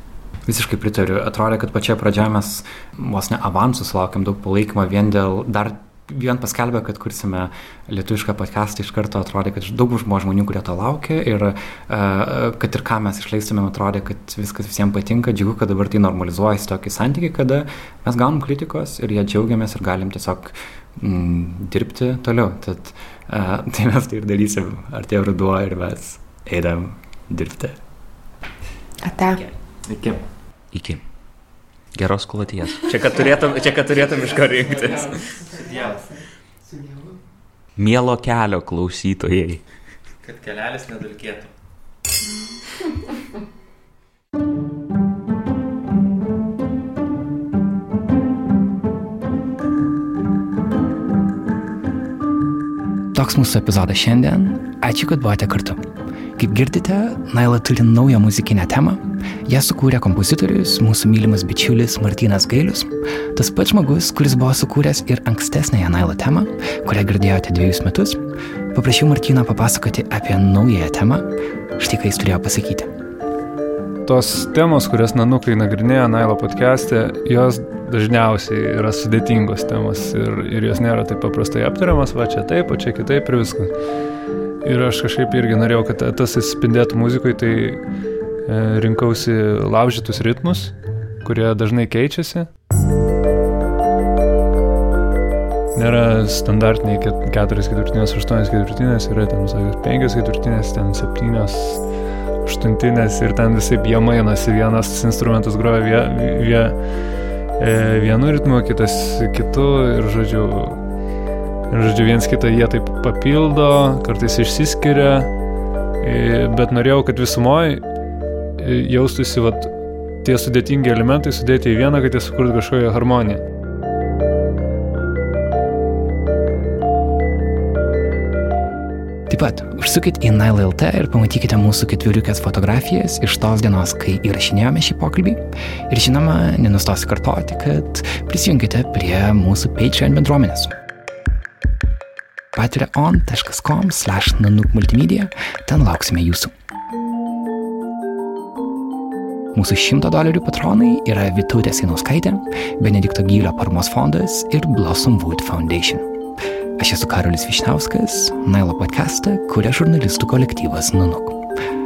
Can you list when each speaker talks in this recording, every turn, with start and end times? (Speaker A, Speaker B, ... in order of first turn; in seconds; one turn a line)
Speaker A: 0.5-27.8
Speaker B: 29.0-29.4
Speaker C: 29.9-30.2
Speaker D: 30.7-31.0
Speaker D: 31.9-35.2
Speaker C: 35.0-36.0
Speaker B: 35.0-37.1
Speaker D: 37.8-39.6
Speaker C: 40.2-41.5
Speaker A: 53.1-55.8
Speaker A: 56.4-68.2
Speaker A: 68.7-72.9
Speaker E: 74.0-83.7
Speaker E: 84.6-87.8
Speaker E: 88.5-92.5
Speaker E: 95.7-101.8
Speaker E: 102.4-106.8
Speaker E: 107.6-110.8
Speaker E: 111.7-115.3
Speaker E: 116.0-117.8
Speaker E: 118.6-119.7
Speaker E: 120.2-123.4
Speaker A: 129.3-140.7
Speaker A: 142.5-146.5
Speaker A: 149.5-156.1
Speaker A: 156.8-161.4